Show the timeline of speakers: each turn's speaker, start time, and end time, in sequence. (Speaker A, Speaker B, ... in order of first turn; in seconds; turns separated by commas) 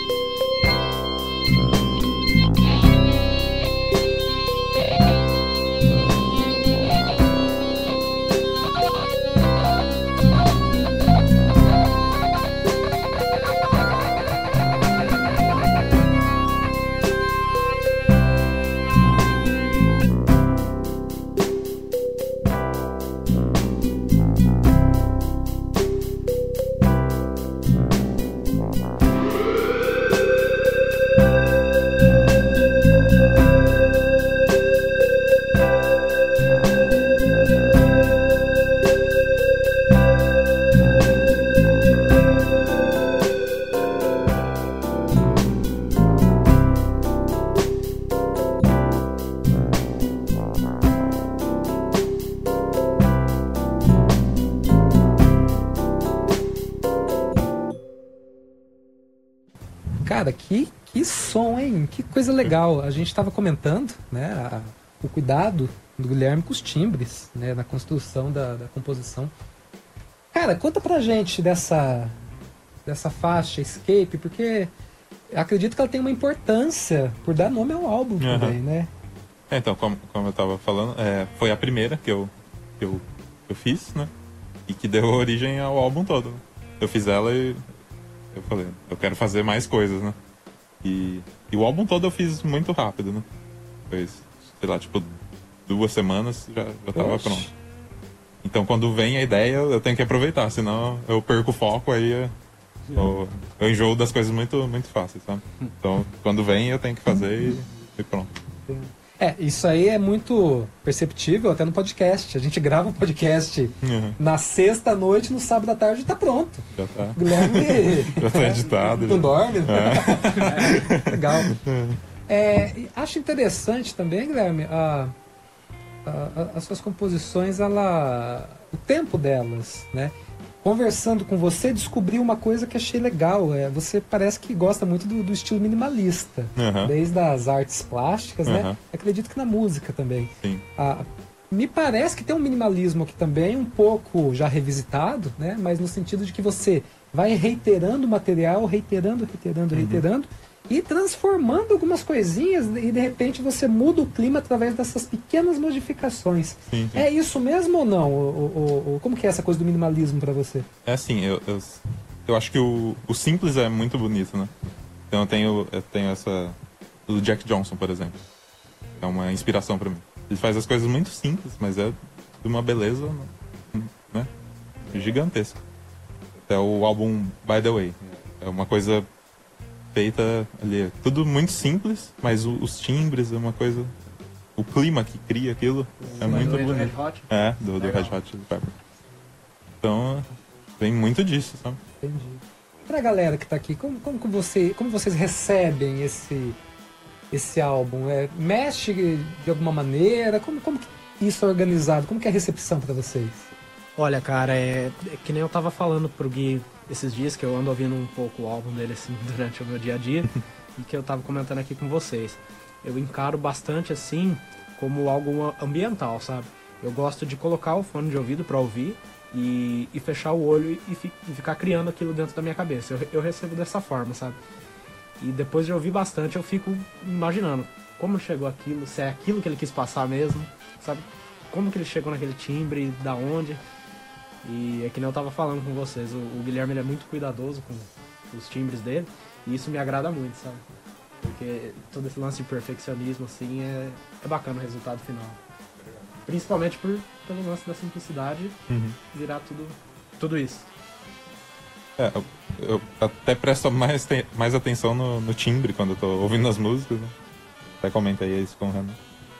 Speaker A: 60.0-69.3, Speaker A: 70.3-72.2, Speaker A: 72.8-74.7, Speaker A: 75.3-78.9, Speaker B: 78.2-78.6, Speaker B: 79.5-84.1, Speaker B: 84.7-87.6, Speaker B: 88.3-90.2, Speaker B: 90.8-93.3, Speaker B: 93.9-95.1, Speaker B: 95.7-97.5, Speaker A: 96.9-97.5, Speaker B: 98.4-102.3, Speaker B: 102.9-108.3, Speaker A: 108.7-121.5, Speaker B: 113.8-114.2, Speaker B: 116.7-122.0, Speaker C: 120.4-120.8, Speaker A: 122.3-125.1, Speaker A: 126.0-160.7, Speaker B: 136.6-136.9, Speaker B: 138.4-138.8, Speaker B: 140.4-140.7, Speaker B: 149.7-150.0, Speaker B: 156.7-157.1, Speaker B: 160.8-164.5, Speaker B: 165.1-168.2, Speaker B: 169.0-174.3, Speaker B: 174.8-175.6, Speaker B: 176.5-179.1, Speaker B: 179.9-183.9, Speaker B: 184.6-188.7, Speaker C: 186.0-188.2, Speaker A: 186.3-186.6, Speaker B: 189.8-190.2, Speaker B: 190.8-191.8, Speaker A: 192.0-196.6, Speaker A: 197.3-203.5, Speaker C: 203.9-224.4, Speaker C: 225.2-233.6, Speaker C: 234.4-240.6, Speaker C: 241.2-245.4, Speaker C: 246.2-248.6, Speaker B: 248.7-249.0, Speaker C: 249.1-250.7, Speaker B: 252.0-257.1, Speaker B: 257.8-259.0